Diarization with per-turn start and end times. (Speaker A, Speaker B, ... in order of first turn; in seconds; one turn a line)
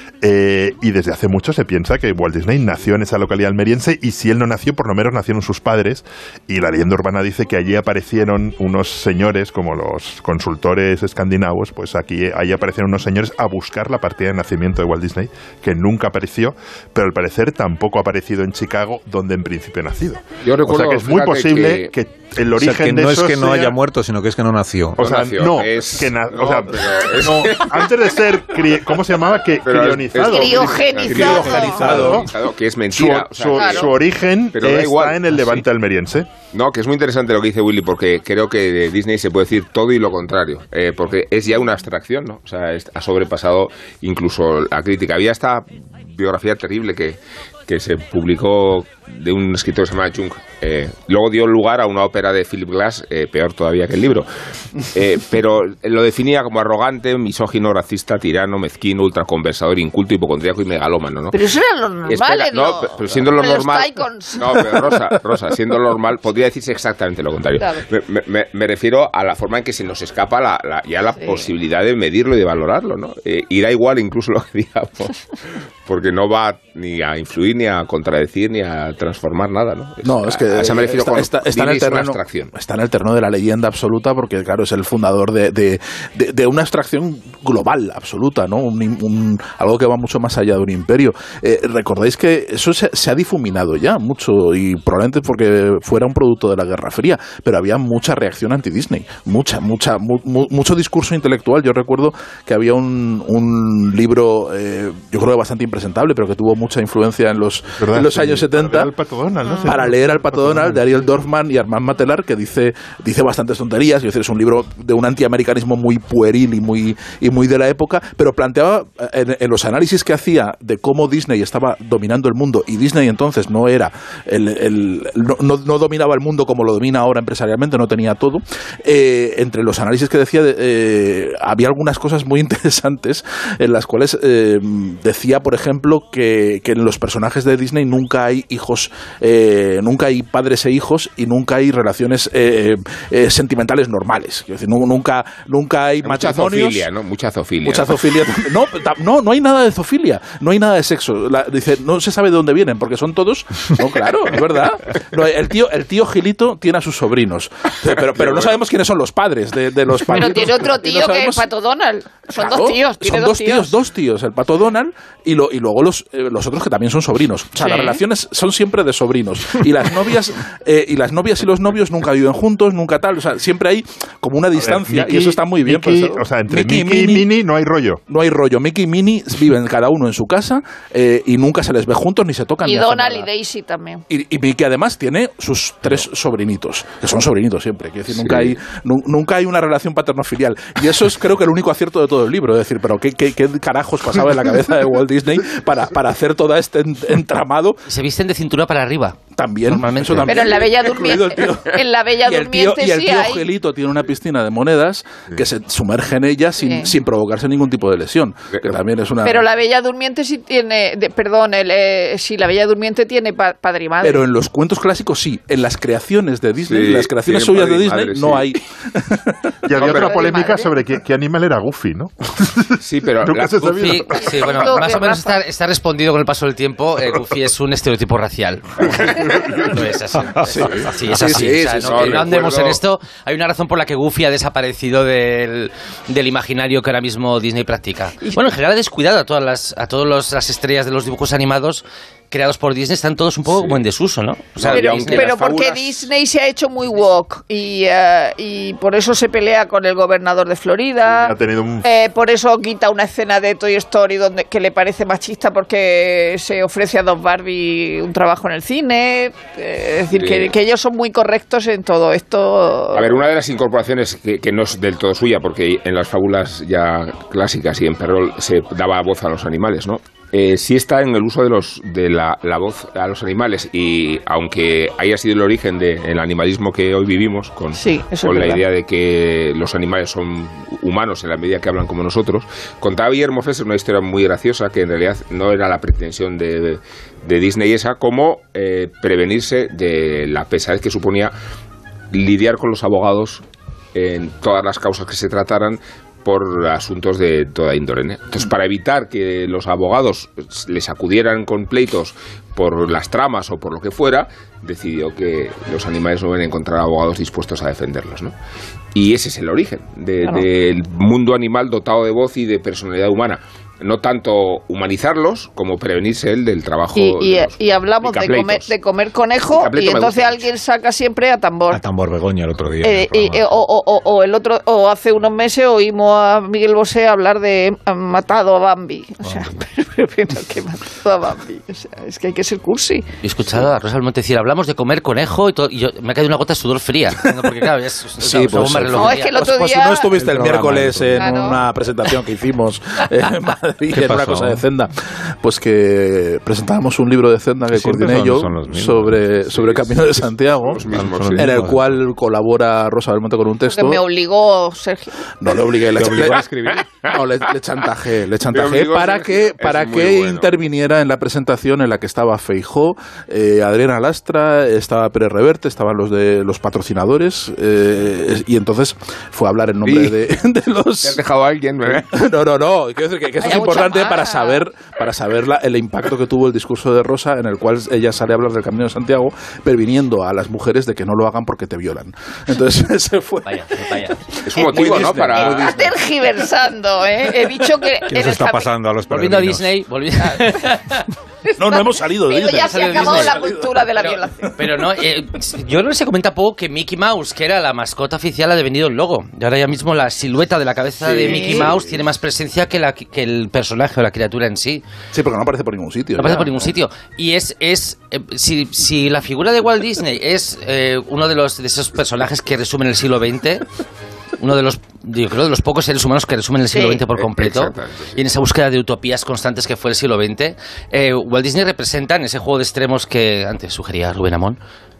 Speaker A: 0.2-23.8
Speaker B: 20.4-21.9
Speaker C: 22.6-25.1
Speaker A: 25.0-32.3
Speaker B: 25.0-28.3
Speaker B: 29.6-34.0
Speaker D: 30.2-31.9
Speaker E: 31.1-32.2
Speaker C: 31.8-32.2
Speaker A: 32.9-36.3
Speaker D: 33.5-33.9
Speaker B: 34.5-35.6
Speaker B: 36.5-54.3
Speaker B: 54.8-61.4
Speaker D: 61.3-64.7
Speaker B: 62.0-75.2
Speaker B: 75.8-82.5
Speaker E: 80.0-108.9
Speaker A: 107.8-110.8
Speaker E: 109.6-146.9
Speaker B: 146.0-148.0
Speaker E: 147.6-161.5
Speaker B: 158.2-158.4
Speaker D: 160.1-163.7
Speaker E: 162.3-177.3
Speaker D: 167.6-168.0
Speaker A: 174.6-178.0
Speaker E: 178.1-183.3
Speaker D: 182.6-184.0
Speaker E: 184.1-197.8
Speaker B: 188.1-188.5
Speaker F: 197.9-200.4
Speaker E: 199.3-209.4
Speaker D: 200.2-203.4
Speaker D: 206.6-206.9
Speaker D: 209.2-214.2
Speaker E: 214.0-219.3
Speaker B: 216.6-218.6
Speaker A: 219.7-225.0
Speaker B: 219.7-220.4
Speaker D: 219.8-220.7
Speaker B: 222.8-223.9
Speaker F: 223.5-245.3
Speaker D: 224.2-225.3
Speaker B: 228.8-229.8
Speaker C: 230.2-230.5
Speaker E: 230.4-232.4
Speaker B: 230.7-232.8
Speaker B: 243.5-243.8
Speaker B: 244.5-246.1
Speaker D: 244.7-263.2
Speaker A: 251.1-251.8
Speaker B: 260.1-260.5
Speaker B: 262.9-291.3
Speaker D: 277.7-278.6
Speaker B: 292.1-293.4
Speaker B: 293.9-308.3
Speaker B: 308.9-318.7
Speaker D: 316.9-321.8
Speaker B: 319.5-320.5
Speaker C: 321.7-323.6
Speaker D: 322.8-333.0
Speaker C: 329.2-329.5
Speaker F: 333.2-339.4
Speaker E: 338.2-350.8
Speaker D: 338.9-340.1
Speaker C: 340.1-341.2
Speaker D: 341.1-341.6
Speaker C: 343.9-344.6
Speaker C: 347.7-349.2
Speaker B: 349.5-351.5
Speaker C: 350.9-352.0
Speaker E: 351.4-354.0
Speaker D: 353.7-355.2
Speaker E: 355.4-371.2
Speaker C: 355.9-356.8
Speaker B: 356.1-357.1
Speaker B: 358.5-360.5
Speaker B: 369.8-370.2
Speaker B: 371.0-372.1
Speaker E: 371.8-386.0
Speaker D: 373.4-374.6
Speaker F: 383.4-384.2
Speaker B: 384.4-385.8
Speaker D: 384.6-388.7
Speaker C: 388.1-389.8
Speaker F: 389.1-391.0
Speaker D: 391.4-394.5
Speaker E: 391.6-394.9
Speaker F: 392.5-393.4
Speaker F: 394.6-404.8
Speaker B: 401.0-402.0
Speaker D: 401.2-401.7
Speaker E: 405.1-406.8
Speaker F: 406.2-413.6
Speaker F: 414.4-424.6
Speaker D: 416.7-417.0
Speaker B: 417.1-418.2